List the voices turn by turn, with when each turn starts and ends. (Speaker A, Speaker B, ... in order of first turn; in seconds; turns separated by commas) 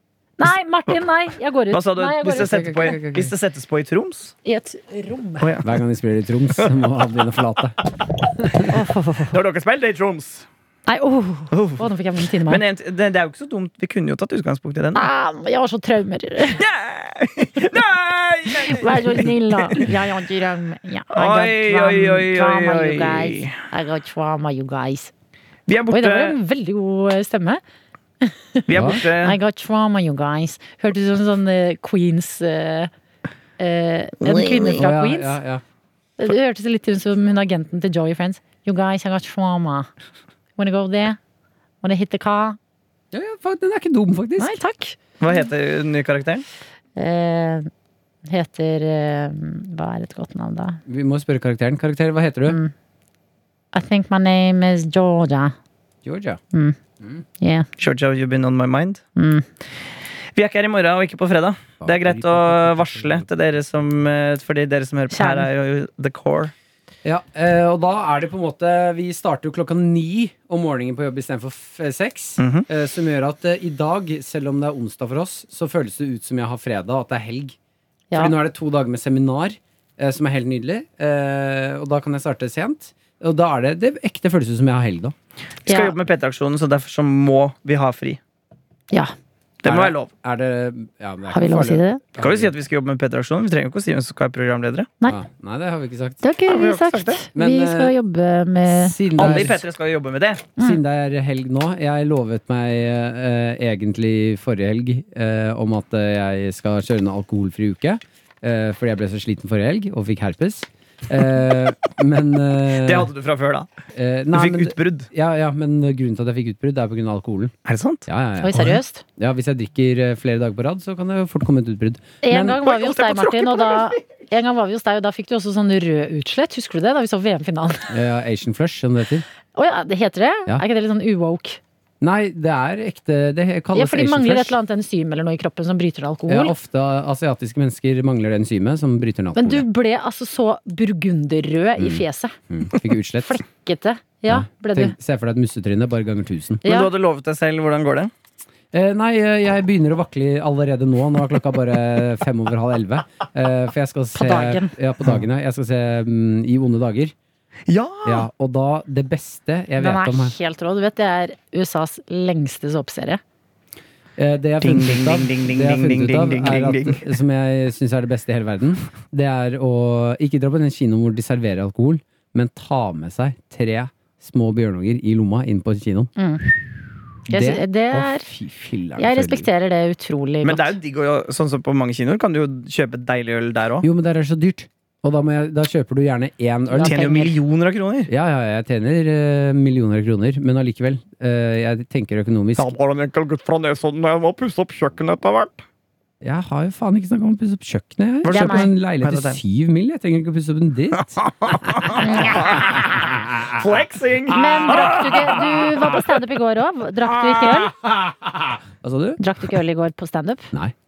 Speaker A: 0.4-3.3, Speaker B: 1.7-4.3, Speaker A: 4.4-5.5, Speaker B: 5.4-5.7, Speaker C: 5.6-7.8, Speaker A: 8.7-9.3, Speaker B: 9.3-10.5, Speaker A: 10.9-12.6, Speaker B: 11.5-11.8, Speaker B: 12.4-15.1, Speaker A: 14.9-16.6, Speaker B: 16.6-19.9, Speaker A: 18.5-25.1, Speaker B: 21.1-23.6, Speaker B: 25.7-26.4, Speaker A: 25.9-27.6, Speaker A: 28.2-32.9, Speaker B: 28.7-29.4, Speaker C: 28.7-29.0, Speaker A: 33.6-35.4, Speaker B: 34.2-34.8, Speaker C: 34.8-35.6, Speaker A: 36.2-39.9, Speaker A: 40.6-41.2, Speaker A: 41.8-42.6, Speaker C: 43.1-44.6, Speaker A: 44.4-45.0, Speaker B: 45.2-46.4, Speaker A: 47.0-47.7, Speaker A: 48.3-50.8, Speaker C: 50.9-52.6, Speaker A: 52.5-52.7, Speaker A: 53.7-55.6, Speaker C: 56.0-56.4, Speaker A: 56.5-56.8, Speaker A: 57.4-57.7, Speaker B: 57.8-59.0, Speaker A: 59.2-59.5, Speaker B: 60.4-66.5, Speaker C: 61.8-63.3, Speaker A: 65.1-65.5, Speaker C: 67.0-77.6, Speaker B: 72.4-72.7, Speaker C: 78.2-85.2, Speaker A: 85.7-86.0, Speaker B: 85.7-88.2, Speaker B: 89.6-90.1, Speaker C: 89.7-92.5, Speaker A: 91.3-92.0, Speaker B: 92.2-94.9, Speaker C: 95.1-96.2, Speaker A: 96.2-99.4, Speaker B: 96.5-97.2, Speaker C: 97.3-97.9, Speaker C: 98.7-99.6, Speaker B: 99.2-100.5, Speaker C: 100.6-113.1, Speaker B: 112.8-113.7, Speaker C: 113.9-117.5, Speaker B: 114.3-115.1, Speaker B: 117.7-118.7, Speaker C: 118.1-122.6, Speaker A: 118.4-119.0, Speaker A: 122.2-127.9, Speaker B: 122.6-124.0, Speaker C: 127.9-129.3, Speaker A: 129.5-131.6, Speaker C: 132.0-134.6, Speaker A: 133.8-136.5, Speaker C: 136.3-139.7, Speaker A: 139.3-142.3, Speaker C: 141.8-143.4, Speaker A: 143.1-144.9, Speaker C: 144.3-146.6, Speaker A: 146.7-146.9, Speaker B: 146.7-148.1, Speaker C: 148.7-157.1, Speaker A: 154.2-154.7, Speaker B: 157.7-158.3, Speaker C: 158.1-160.3, Speaker A: 159.8-163.2, Speaker C: 164.2-176.1, Speaker B: 164.6-167.1, Speaker A: 176.2-176.5, Speaker A: 177.3-178.3, Speaker C: 177.3-179.5, Speaker A: 179.0-180.8, Speaker B: 180.4-183.8, Speaker C: 183.8-187.0, Speaker A: 186.7-187.4, Speaker B: 186.8-188.1, Speaker C: 188.1-192.7, Speaker B: 192.6-195.7, Speaker C: 196.2-203.5, Speaker B: 198.2-199.4, Speaker A: 198.2-198.7, Speaker B: 201.1-206.1, Speaker A: 201.9-202.6, Speaker A: 204.3-207.7, Speaker B: 207.2-207.7, Speaker C: 208.8-209.2, Speaker A: 209.2-210.5